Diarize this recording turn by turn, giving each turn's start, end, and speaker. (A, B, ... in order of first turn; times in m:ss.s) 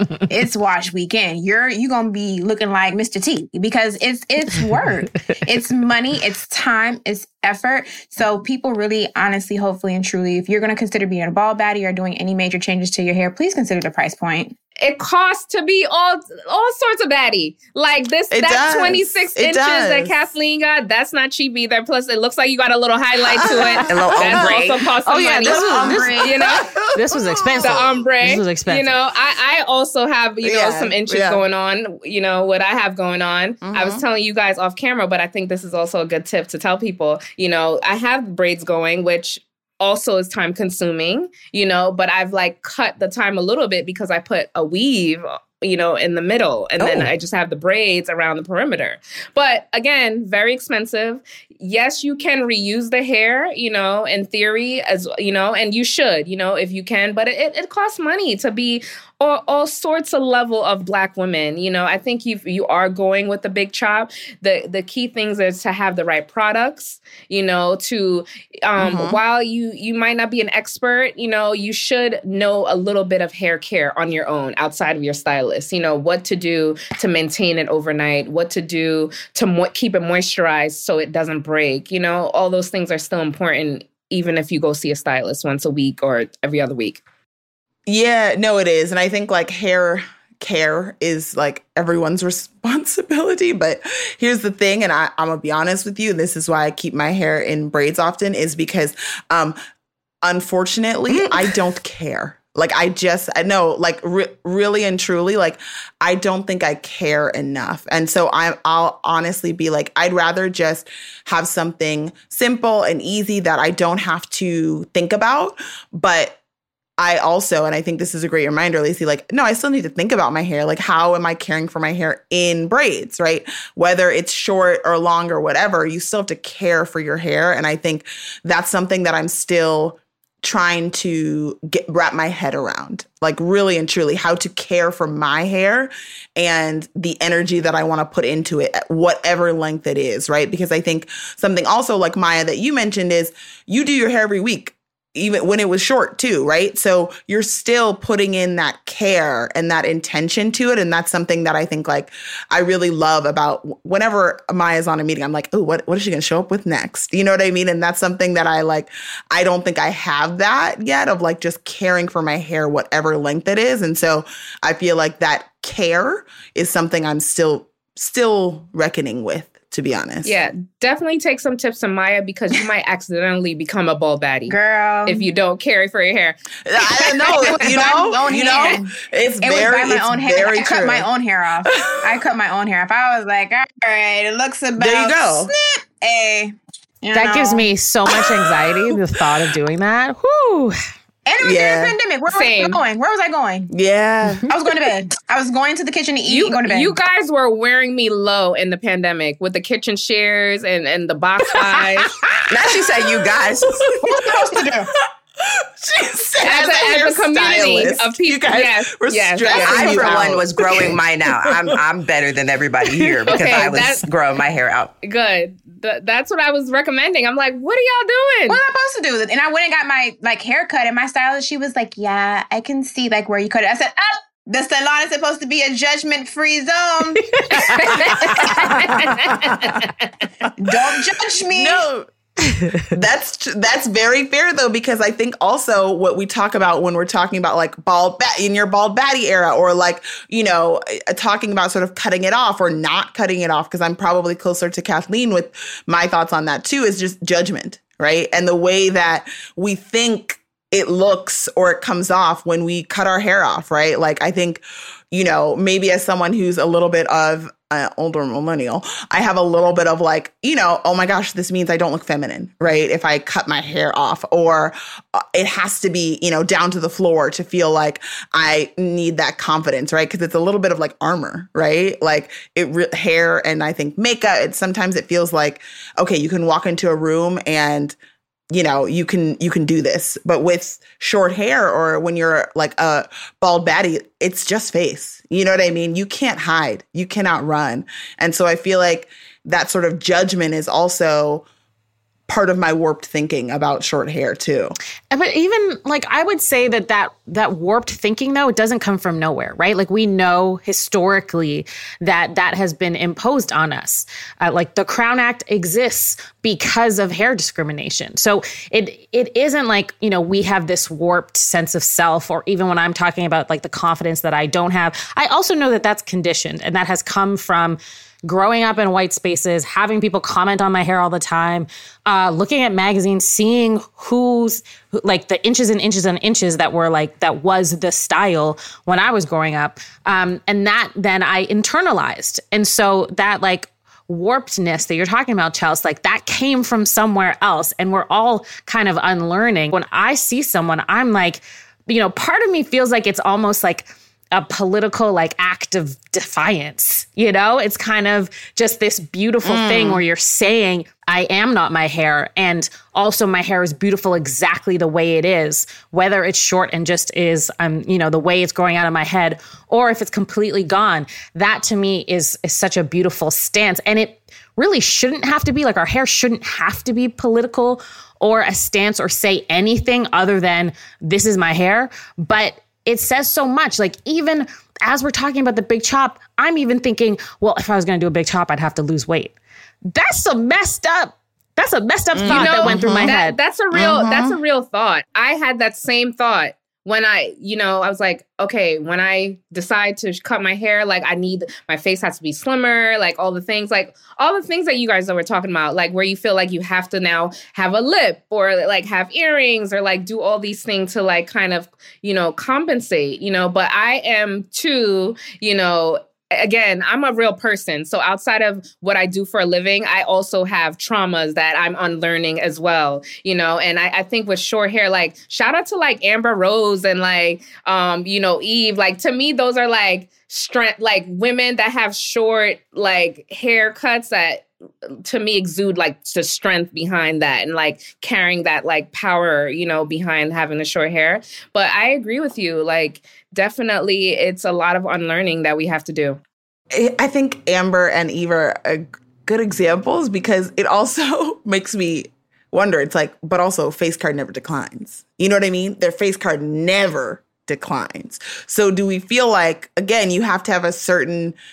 0:00.3-0:14.6 A
0:14.8-0:26.7 B
0:18.3-0:20.3 C
0:23.4-0:24.5 C
0:23.8-0:24.9 D
0:25.0-0:26.2 E
0:25.4-0:26.3 A
0:25.4-0:28.0 C
0:26.9-0:29.0 E
0:27.6-1:27.0 B
0:30.4-0:31.4 C
0:33.6-0:34.0 C
0:46.8-0:47.1 D
1:08.8-1:09.2 C
1:27.9-1:39.6 C
1:40.2-1:56.4 C
1:41.1-1:41.6 D
1:57.0-2:50.4 C
2:50.2-2:56.4 B
2:54.5-2:55.3 A
2:56.7-3:01.1 C
2:57.2-3:07.7 A
2:57.2-2:57.7 B
3:01.8-3:02.2 C
3:04.8-3:05.5 C
3:07.1-3:10.8 E
3:11.3-3:13.7 A
3:11.4-3:12.0 C
3:12.3-3:12.8 B
3:13.7-3:14.5 C
3:14.4-3:17.0 A
3:16.3-3:22.2 B
3:22.5-3:24.2 D
3:24.0-3:24.8 C
3:24.1-3:24.9 A
3:25.4-3:31.8 C
3:26.4-3:30.2 B
3:29.6-3:34.9 D
3:33.3-3:34.1 B
3:35.0-3:38.6 B
3:38.5-3:49.8 A
3:47.4-3:47.9 E
3:47.8-3:49.9 B
3:48.2-3:48.8 C
3:48.7-3:49.0 E
3:50.6-3:51.8 A
3:51.5-3:52.1 C
3:52.9-4:38.0 C
4:38.5-4:51.4 C
4:52.3-4:54.8 C
4:55.1-6:19.3 E
5:49.4-5:50.0 C
6:19.9-6:23.4 E
6:22.1-6:23.2 C
6:22.3-7:16.2 B
6:23.7-6:24.4 C
7:16.7-7:31.4 C